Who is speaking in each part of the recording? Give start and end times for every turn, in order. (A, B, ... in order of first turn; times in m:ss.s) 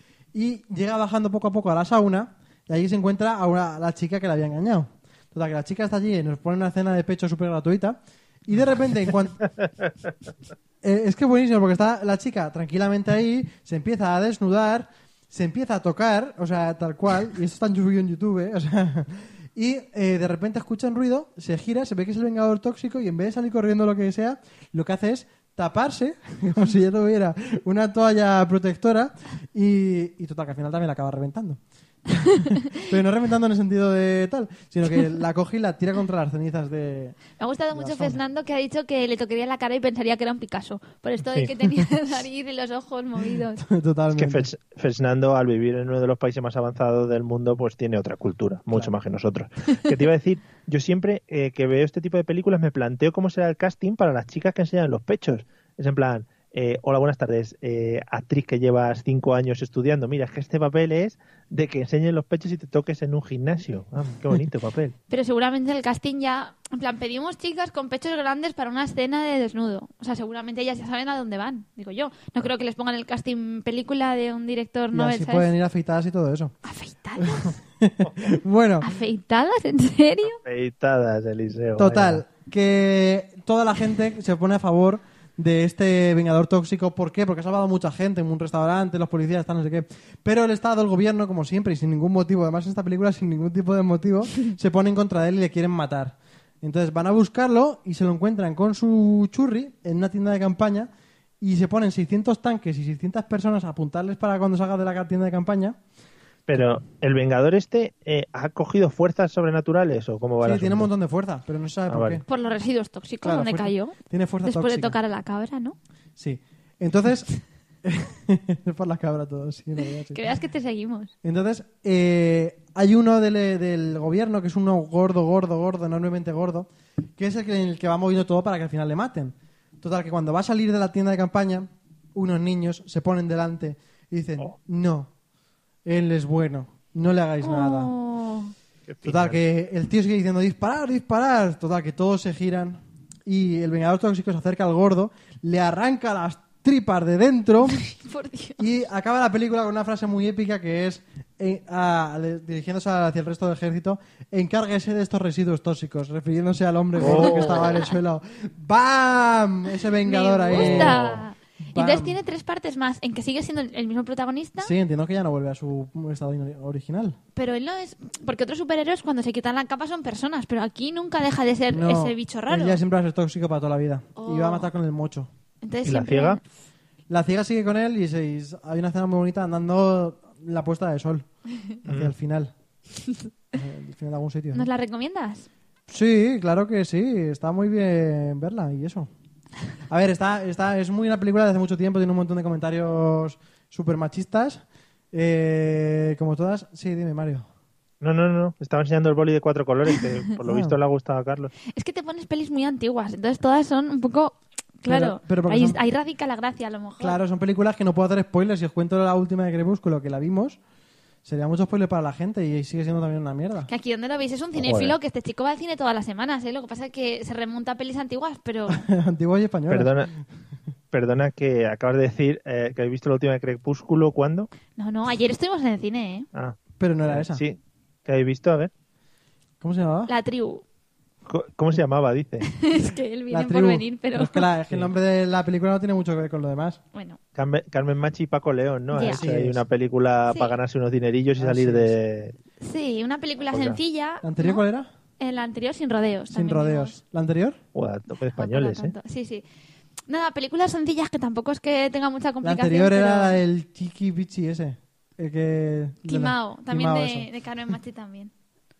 0:00.3-0:09.4 A
0:10.8-0:37.2 A
0:37.4-0:43.6 B
0:37.7-0:38.2 A
0:43.6-0:44.5 A
0:44.1-1:05.0 C
1:05.1-1:15.5 B
1:14.9-1:16.6 A
1:16.6-1:17.6 B
1:17.2-1:18.9 A
1:18.8-1:20.4 B
1:20.4-1:22.2 C
1:21.8-1:40.9 A
1:41.4-1:45.8 A
1:46.5-1:50.9 C
1:50.4-1:52.2 A
1:51.9-1:52.2 C
1:52.3-1:55.8 B
1:53.2-1:55.0 A
1:56.2-1:57.3 A
1:57.8-2:00.2 A
2:00.1-2:01.1 B
2:01.2-2:15.1 A
2:15.8-2:17.9 A
2:17.4-2:18.5 B
2:18.9-2:19.4 C
2:19.0-2:27.8 A
2:27.7-2:28.6 B
2:28.6-2:41.0 A
2:37.0-2:38.0 B
2:37.0-2:37.8 C
2:40.0-2:44.7 B
2:40.6-2:41.2 C
2:41.7-2:42.2 A
2:44.6-2:47.2 A
2:47.4-2:52.8 B
2:51.7-2:55.3 A
2:54.2-2:54.7 B
2:55.6-2:56.4 B
2:55.9-2:56.4 C
2:57.1-3:01.3 A
3:01.8-3:02.5 A
3:01.9-3:02.1 C
3:03.5-3:04.7 A
3:04.5-3:05.5 B
3:05.9-3:09.1 A
3:09.9-3:17.5 A
3:18.0-3:21.5 C
3:20.4-3:20.8 A
3:21.7-3:27.2 B
3:24.9-3:25.8 A
3:27.0-3:30.6 A
3:31.2-3:33.7 A
3:33.7-3:38.9 B
3:34.6-3:35.0 C
3:38.7-3:40.2 A
3:39.7-3:40.1 C
3:40.9-3:44.5 C
3:44.8-3:46.3 B
3:46.3-3:48.7 C
3:46.8-3:47.4 A
3:49.6-3:50.1 A
3:50.1-3:50.6 B
3:51.3-3:52.5 C
3:52.5-3:54.4 B
3:53.3-3:56.8 A
3:56.9-3:57.2 B
3:57.4-4:02.4 C
3:58.9-3:59.2 B
3:59.1-3:59.6 A
4:00.3-4:00.6 B
4:01.4-4:02.0 A
4:02.6-4:04.6 B
4:03.5-4:03.8 C
4:04.2-4:04.9 A
4:05.2-4:07.0 B
4:06.3-4:07.6 A
4:07.7-4:09.0 C
4:08.3-4:09.4 B
4:10.1-4:13.4 B
4:12.4-4:17.3 A
4:16.1-4:18.3 B